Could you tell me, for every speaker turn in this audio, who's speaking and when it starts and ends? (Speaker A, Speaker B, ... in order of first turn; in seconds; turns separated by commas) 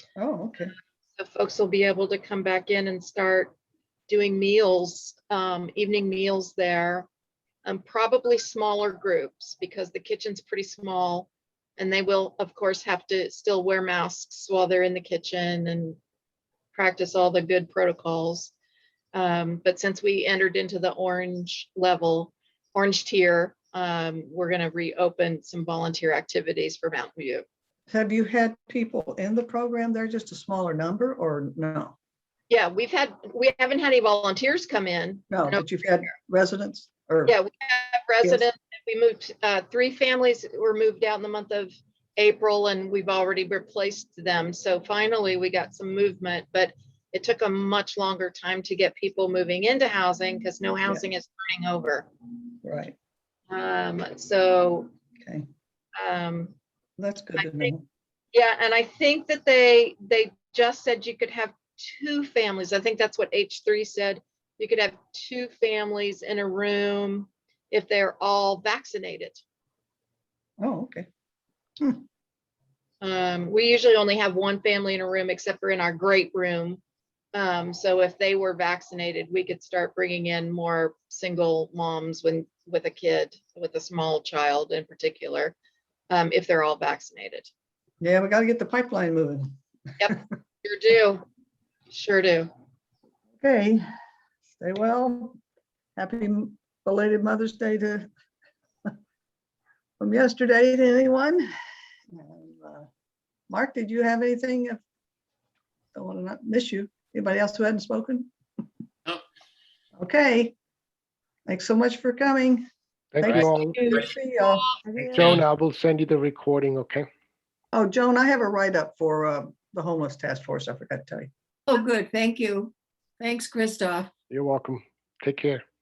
Speaker A: 0.2-0.7, Speaker B: 1.1-3.5, Speaker B: 4.1-7.1, Speaker B: 7.6-16.0, Speaker B: 16.7-18.5, Speaker B: 19.1-27.4, Speaker A: 27.9-31.9, Speaker B: 32.5-36.1, Speaker A: 35.3-37.4, Speaker B: 37.3-52.1, Speaker A: 52.6-53.0, Speaker B: 53.5-54.9, Speaker B: 56.0-56.5, Speaker A: 57.0-57.8, Speaker B: 57.4-57.7, Speaker B: 58.3-69.4, Speaker A: 70.6-71.1, Speaker B: 73.0-76.8, Speaker B: 77.3-85.5, Speaker B: 86.1-87.5, Speaker A: 88.0-89.5, Speaker B: 90.0-91.2, Speaker B: 91.9-92.5, Speaker A: 93.4-93.8, Speaker A: 94.6-95.4, Speaker A: 96.0-98.1, Speaker A: 100.0-101.5, Speaker A: 102.1-102.9, Speaker A: 103.5-104.8, Speaker A: 105.9-108.3, Speaker A: 110.0-110.5, Speaker A: 111.5-112.6, Speaker C: 113.1-113.9, Speaker A: 113.2-115.3, Speaker C: 115.1-117.1, Speaker A: 117.7-121.3, Speaker D: 121.7-124.1, Speaker C: 124.3-125.6